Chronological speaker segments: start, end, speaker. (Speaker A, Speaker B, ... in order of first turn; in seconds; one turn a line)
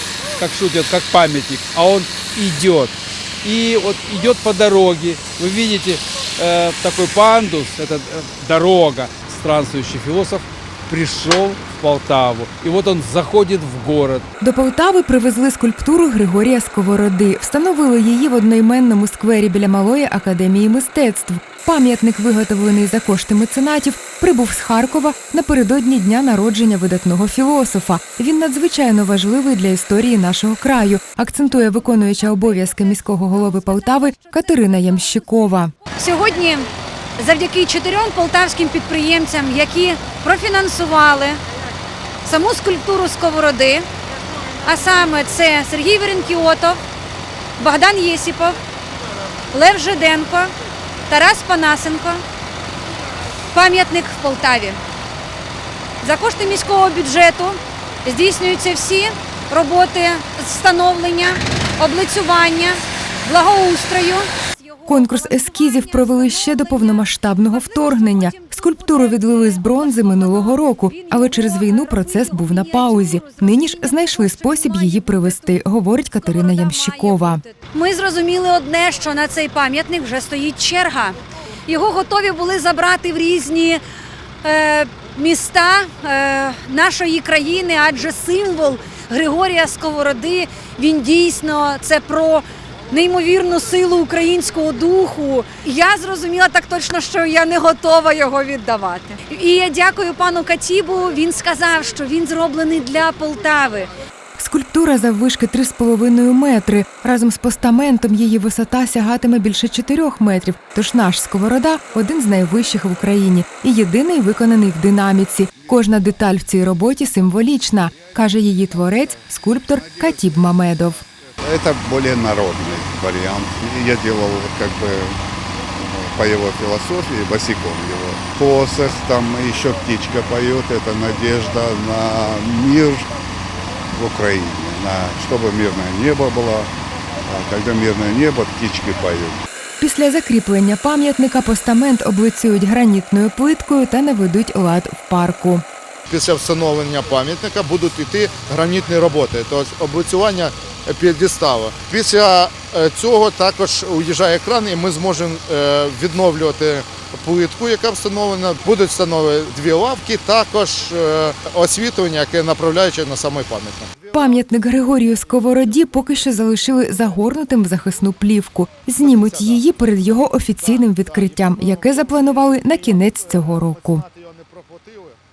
Speaker A: 0.4-14.2
Speaker B: 14.4-35.7
Speaker C: 32.1-34.7
Speaker C: 35.8-41.4
Speaker C: 42.2-43.9
Speaker C: 44.6-46.8
Speaker C: 47.6-48.6
Speaker C: 49.5-50.5
Speaker C: 51.1-52.2
Speaker C: 53.5-54.8
Speaker C: 56.0-75.6
Speaker B: 64.8-77.4
Speaker C: 76.1-83.8
Speaker C: 84.4-103.9
Speaker B: 104.4-121.0
Speaker D: 121.4-125.2
Speaker D: 125.7-133.1
Speaker D: 133.9-139.4
Speaker B: 139.8-145.6
Speaker E: 146.1-164.1
Speaker B: 164.1-174.0
Speaker E: 169.0-169.9
Speaker E: 170.6-175.2